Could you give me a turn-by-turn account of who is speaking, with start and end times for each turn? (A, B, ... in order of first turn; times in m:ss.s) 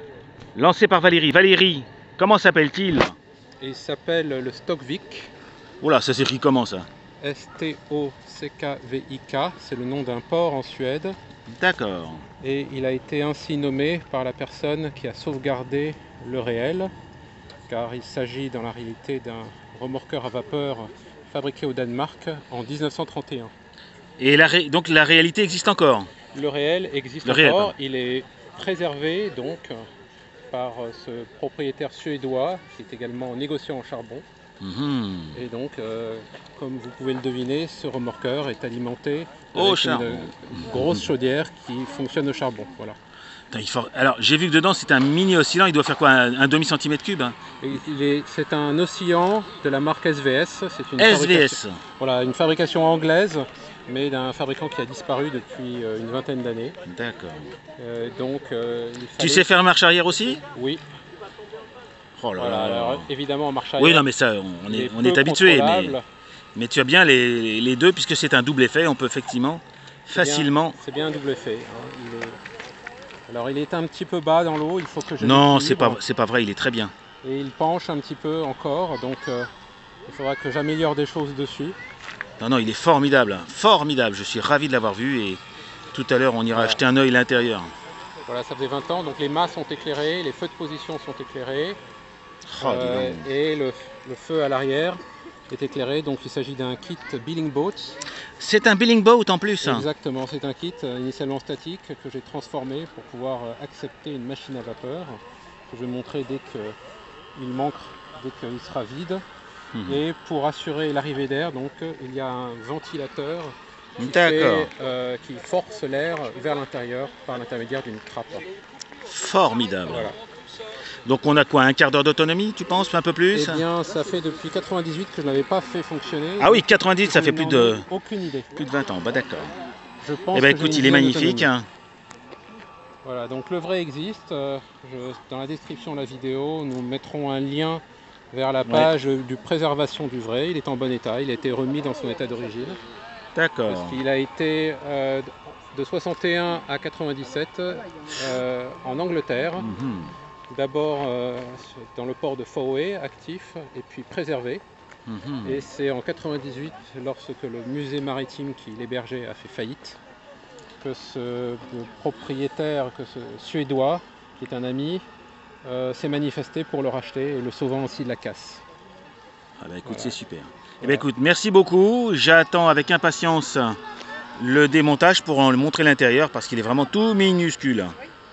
0:00.6-0:03.2 A
0:03.6-0:05.3 B
0:05.8-0:06.9 A
0:07.2-0:11.2 B
0:11.5-0:12.2 A
0:12.4-0:16.9 B
0:17.7-0:23.5 B
0:24.2-0:26.1 A
0:26.3-0:29.8 B
0:27.2-0:27.7 A
0:30.5-0:34.2 B
0:34.6-0:35.4 A
0:35.3-0:43.0 B
0:39.5-0:40.3 A
0:43.5-0:47.4 A
0:47.6-0:56.8 B
0:51.0-0:51.8 A
0:56.9-0:57.5 A
0:57.8-0:59.5 B
0:59.2-1:00.4 A
1:00.5-1:00.8 B
1:02.2-1:03.1 A
1:02.4-1:04.1 B
1:03.8-1:06.0 A
1:04.7-1:06.0 B
1:06.6-1:10.8 A
1:10.1-1:12.4 B
1:13.3-1:16.0 B
1:15.2-1:16.9 A
1:17.2-1:19.5 B
1:20.1-1:21.8 B
1:22.4-1:25.4 A
1:25.9-1:27.7 A
1:26.5-1:26.8 B
1:28.3-1:31.8 B
1:32.5-1:33.3 A
1:32.6-1:38.0 B
1:38.4-1:39.9 A
1:39.6-1:46.8 B
1:47.4-1:49.2 B
1:49.7-1:50.0 A
1:49.9-1:58.5 B
1:54.0-1:54.7 A
1:59.1-2:00.1 A
1:59.9-2:00.2 B
2:01.1-2:03.6 A
2:03.3-2:08.6 B
2:06.4-2:07.8 A
2:08.6-2:09.5 A
2:10.0-2:11.5 B
2:10.3-2:11.7 A
2:13.0-2:22.8 B
2:23.4-2:24.0 A
2:23.7-2:29.7 B
2:29.6-2:30.1 A
2:30.5-2:34.6 B
2:35.1-2:35.6 A
2:35.4-2:40.0 B
2:40.8-2:45.0 B
2:45.6-2:48.6 B
2:49.6-2:53.8 A
2:49.9-2:50.1 B
2:54.4-2:58.0 A